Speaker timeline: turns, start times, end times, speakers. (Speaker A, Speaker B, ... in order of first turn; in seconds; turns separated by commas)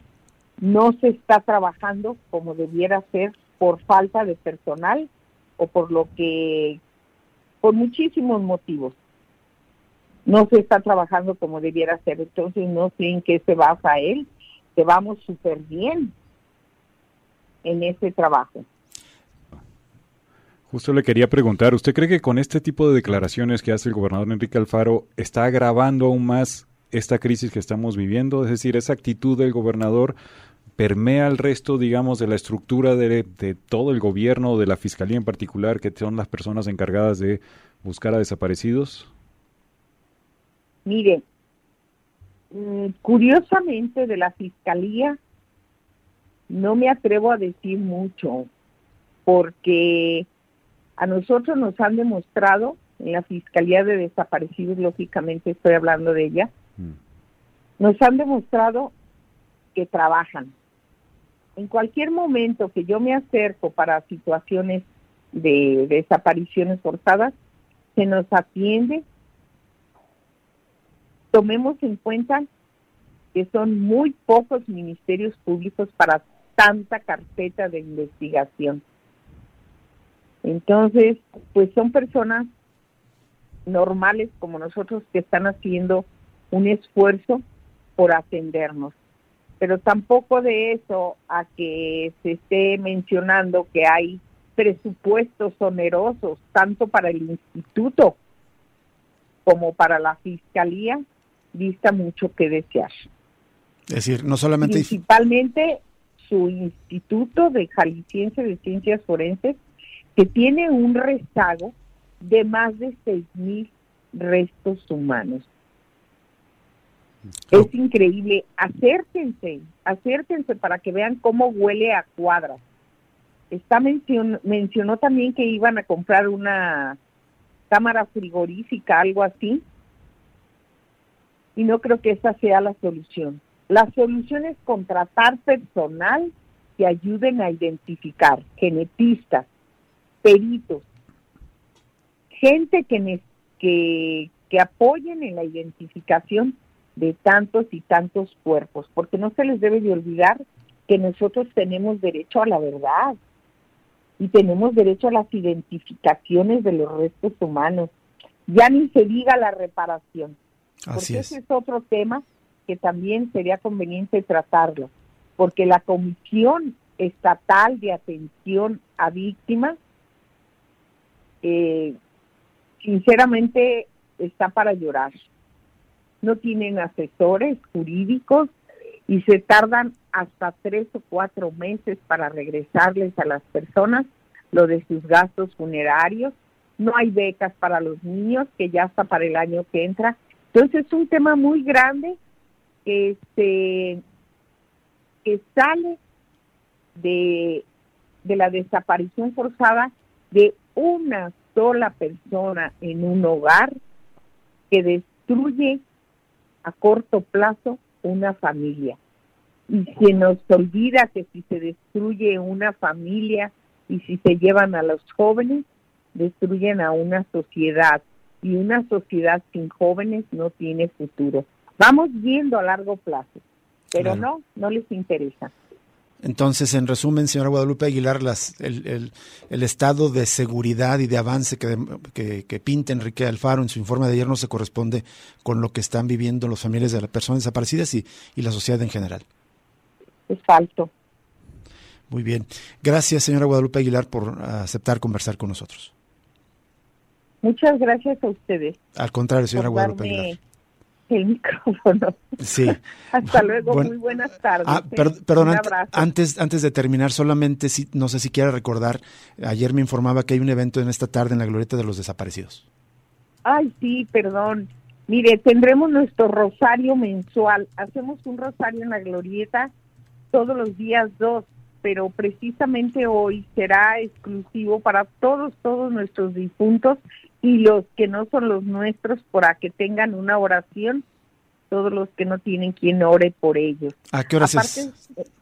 Speaker A: 0.6-6.8, Speaker A: 7.6-8.9, Speaker A: 10.2-16.1, Speaker A: 17.6-18.6, Speaker B: 20.7-30.1, Speaker B: 30.8-39.1, Speaker A: 40.9-41.2, Speaker A: 42.5-45.2, Speaker A: 46.5-48.5, Speaker A: 49.2-50.3, Speaker A: 51.0-56.5, Speaker A: 57.8-58.9, Speaker A: 59.7-60.5, Speaker A: 61.5-67.3, Speaker A: 67.9-69.0, Speaker A: 71.3-72.5, Speaker A: 73.3-78.8, Speaker A: 80.4-82.5, Speaker A: 83.7-87.4, Speaker A: 88.0-88.9, Speaker A: 89.6-98.2, Speaker A: 99.5-101.0, Speaker A: 101.5-103.1, Speaker C: 103.9-104.9, Speaker A: 104.6-109.6, Speaker A: 110.2-115.5, Speaker A: 117.5-122.6, Speaker A: 123.5-127.0, Speaker A: 127.7-129.6, Speaker A: 131.6-139.5, Speaker A: 140.2-140.8, Speaker A: 142.3-153.2, Speaker A: 154.2-157.9, Speaker A: 158.5-160.4, Speaker C: 160.9-161.3, Speaker A: 160.9-169.8, Speaker A: 171.4-172.0, Speaker A: 172.8-175.2, Speaker A: 176.2-178.5, Speaker A: 179.1-192.2, Speaker A: 192.8-194.0, Speaker A: 195.2-196.0, Speaker A: 196.9-197.6, Speaker A: 198.2-203.7, Speaker A: 204.7-205.8, Speaker A: 206.6-209.0, Speaker A: 209.7-223.4, Speaker A: 223.9-225.5, Speaker C: 226.2-239.2, Speaker A: 240.3-240.9, Speaker C: 242.1-245.9, Speaker A: 247.4-248.8, Speaker C: 248.9-250.3, Speaker A: 249.6-250.4, Speaker A: 251.1-256.1, Speaker C: 252.4-253.9, Speaker C: 254.6-262.6, Speaker A: 263.4-269.7, Speaker A: 270.3-281.0, Speaker A: 281.7-285.0, Speaker C: 284.1-284.9